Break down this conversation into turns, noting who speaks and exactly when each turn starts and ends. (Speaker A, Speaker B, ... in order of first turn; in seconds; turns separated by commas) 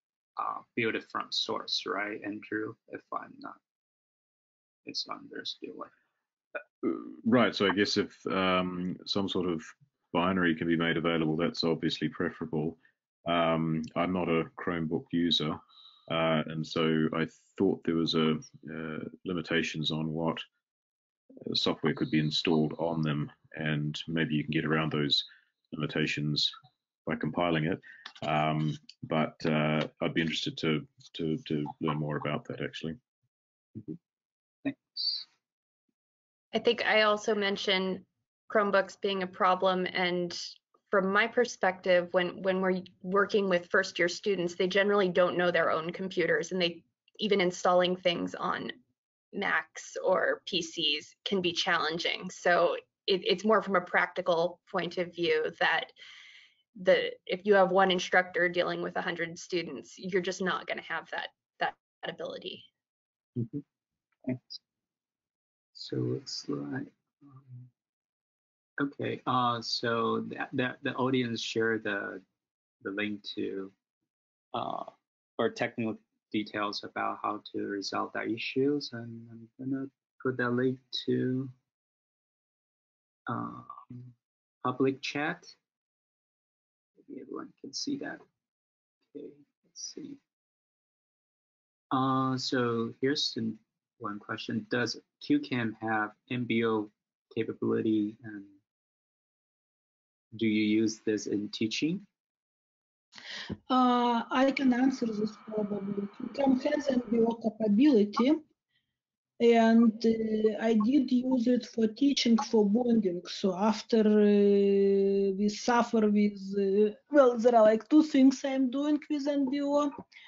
Speaker A: 0.4-3.6, Speaker A: 4.8-5.9, Speaker B: 6.8-20.4, Speaker B: 21.5-26.5, Speaker B: 27.1-33.0, Speaker A: 34.6-35.2, Speaker C: 36.5-48.7, Speaker C: 49.3-55.9, Speaker C: 56.7-62.7, Speaker A: 63.4-63.6, Speaker A: 64.2-64.6, Speaker A: 65.7-67.7, Speaker A: 68.8-72.2, Speaker A: 72.8-73.7, Speaker A: 74.5-81.5, Speaker A: 83.3-85.5, Speaker A: 87.0-88.2, Speaker A: 89.1-90.2, Speaker A: 91.9-98.6, Speaker A: 100.3-102.0, Speaker D: 103.7-108.4, Speaker D: 109.4-119.9